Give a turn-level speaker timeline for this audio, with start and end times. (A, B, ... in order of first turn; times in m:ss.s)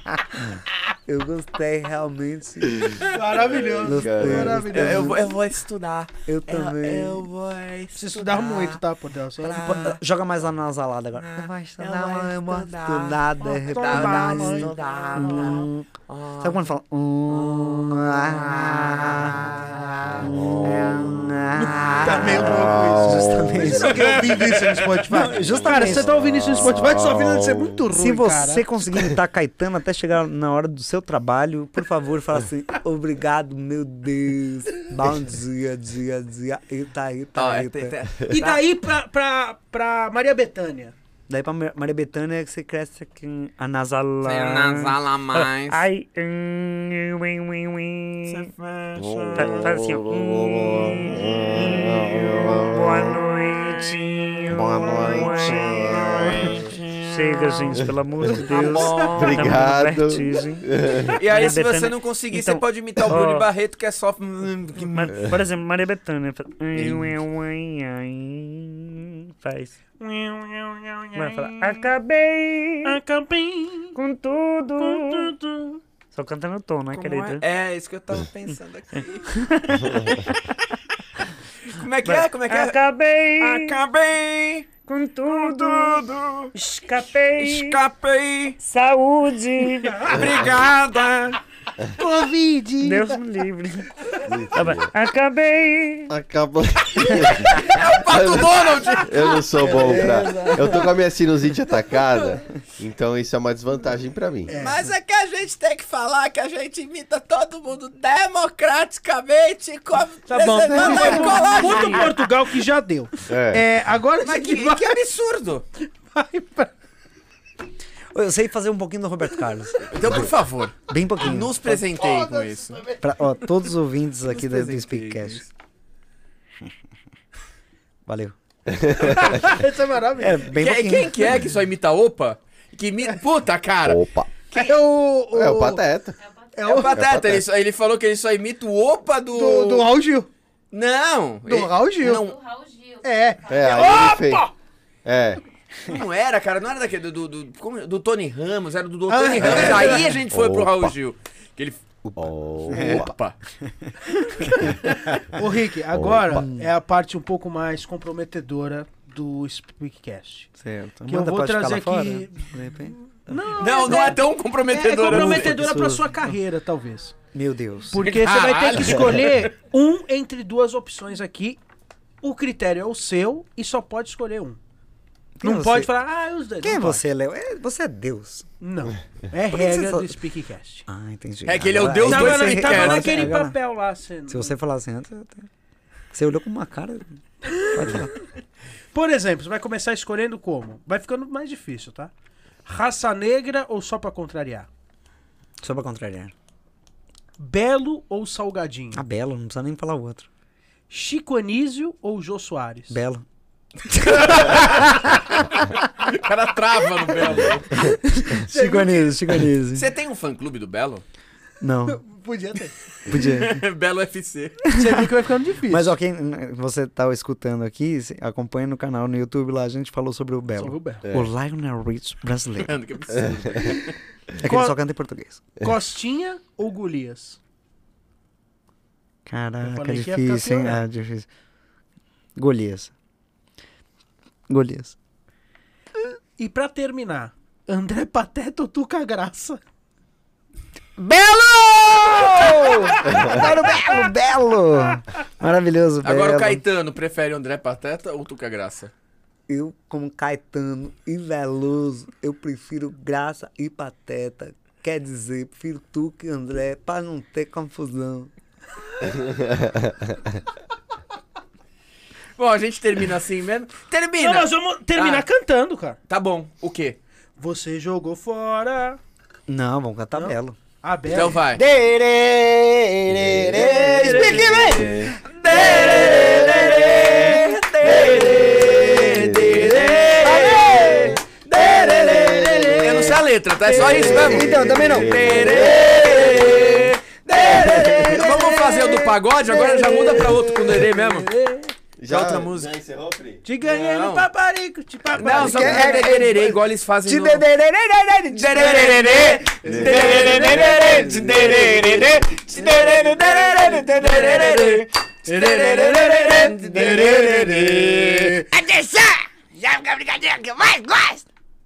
0:00.4-0:03.0 A
0:03.1-0:05.2 B
0:03.8-0:05.2 A
0:03.9-0:04.6 C
0:04.7-0:08.8 D
0:06.3-0:07.3 A
0:07.9-0:09.9 B
0:09.4-0:09.9 D
0:09.6-0:24.3 A
0:11.2-0:16.6 D
0:13.6-0:14.7 B
0:17.3-0:18.9 D
0:21.5-0:28.7 B
0:23.6-0:25.0 D
0:25.1-0:26.1 A
0:26.1-0:27.8 C
0:27.9-0:38.0 A
0:37.3-0:38.6 D
0:38.3-0:40.9 B
0:41.3-0:48.5 A
0:44.2-0:45.9 D
0:48.2-0:49.8 D
0:49.0-0:53.2 C
0:49.3-1:03.5 A
0:54.5-0:56.7 C
0:57.1-0:57.7 D
0:58.3-1:01.2 C
0:58.4-0:59.5 D
1:01.2-1:05.2 D
1:04.8-1:09.8 A
1:06.8-1:07.1 D
1:10.0-1:11.5 B
1:11.1-1:13.0 A
1:12.8-1:14.0 B
1:13.9-1:15.3 A
1:14.8-1:15.8 B
1:16.1-1:17.4 A
1:16.9-1:20.8 D
1:19.3-1:20.3 A
1:21.6-1:22.8 D
1:22.0-1:23.8 A
1:23.4-1:24.8 D
1:24.9-1:27.8 A
1:25.4-1:26.5 D
1:27.4-1:28.6 D
1:28.6-1:30.4 A
1:29.8-1:30.2 B
1:30.0-1:31.4 D
1:31.9-1:33.2 B
1:32.8-1:36.1 A
1:34.3-1:34.9 C
1:36.1-1:44.6 C
1:36.9-1:40.5 D
1:39.6-1:40.9 A
1:39.6-1:40.4 B
1:42.1-1:42.4 D
1:44.5-1:44.8 B
1:44.6-1:52.1 D
1:50.3-1:55.0 B
1:50.8-1:51.4 A
1:53.3-1:53.6 C
1:54.2-1:55.6 D
1:55.9-1:56.7 B
1:58.1-2:00.3 A
1:59.9-2:02.8 D
2:00.9-2:01.9 A
2:02.0-2:03.0 B
2:03.0-2:05.4 A
2:04.2-2:05.5 D
2:08.1-2:08.3 A
2:09.0-2:10.5 B
2:10.2-2:11.4 A
2:10.5-2:14.7 D
2:13.8-2:14.3 C
2:14.5-2:15.8 B
2:15.3-2:16.2 C
2:16.5-2:16.9 B
2:16.6-2:19.9 D
2:16.9-2:17.4 C
2:19.3-2:20.3 B
2:20.7-2:22.8 D
2:21.4-2:22.3 B
2:23.0-2:24.4 B
2:23.5-2:24.5 C
2:23.6-2:24.1 D
2:25.0-2:25.4 C
2:25.8-2:31.8 D
2:29.1-2:30.2 B
2:29.4-2:30.9 C
2:32.0-2:33.1 C
2:32.7-2:33.4 D
2:32.7-2:33.0 A
2:33.6-2:33.9 A
2:34.2-2:35.2 D
2:35.3-2:40.5 B
2:35.9-2:36.4 C
2:36.3-2:36.7 A
2:40.6-2:44.1 A
2:41.1-2:42.5 B
2:43.3-2:47.1 B
2:43.6-2:45.6 D
2:45.0-2:46.3 A
2:47.3-2:48.0 A
2:47.9-2:51.6 B
2:48.0-2:49.5 D
2:52.2-2:54.6 B
2:55.4-2:55.9 A
2:55.4-2:57.0 B
2:56.6-2:58.5 A
2:58.6-3:00.8 B
2:59.5-3:00.1 A
3:00.9-3:03.6 A
3:01.4-3:03.3 D
3:02.0-3:04.5 B
3:04.3-3:05.5 A
3:06.1-3:08.1 A
3:07.5-3:08.0 B
3:08.9-3:12.1 B
3:12.6-3:14.7 B
3:15.6-3:16.3 A
3:17.4-3:19.0 B
3:18.9-3:20.3 A
3:20.9-3:23.0 B
3:22.9-3:23.2 A
3:23.9-3:27.7 D
3:27.2-3:29.9 A
3:28.3-3:29.2 B
3:29.7-3:31.0 D
3:31.6-3:32.0 A
3:31.9-3:32.7 B
3:33.0-3:34.8 D
3:33.1-3:33.6 A
3:34.8-3:36.0 B
3:35.7-3:42.7 A
3:40.6-3:41.1 B
3:41.0-3:41.3 C
3:42.6-3:44.0 D
3:44.4-3:45.5 A
3:44.4-3:44.8 B
3:45.6-3:47.4 B
3:49.2-3:51.3 A
3:49.6-3:50.8 B
3:52.4-3:52.9 A
3:54.5-3:55.0 A
3:56.4-3:59.6 B
4:01.0-4:06.6 A
4:06.0-4:08.9 D
4:09.5-4:18.3 A
4:22.4-4:25.3 D
4:24.2-4:26.0 B
4:26.1-4:27.0 D
4:27.4-4:29.0 B
4:29.5-4:30.6 A
4:30.2-4:31.5 B
4:31.1-4:31.6 D
4:31.6-4:32.7 A
4:33.0-4:35.2 C
4:33.5-4:51.3 D
4:34.0-4:34.9 B
4:38.6-4:40.0 C
4:38.9-4:40.1 B
4:40.2-4:41.2 A
4:41.7-4:43.1 C
4:43.6-4:45.6 A
4:43.7-4:46.8 C
4:47.3-4:50.9 A
4:47.6-4:48.2 C
4:50.8-4:51.7 B
4:52.0-4:53.4 C
4:52.1-4:52.7 D
4:53.4-4:56.2 B
4:53.6-4:54.3 D
4:55.1-4:57.5 D
4:55.3-5:01.5 A
4:58.3-5:08.3 D
4:59.6-5:02.3 C
4:59.8-5:00.2 B
5:03.9-5:08.4 B
5:08.5-5:11.2 E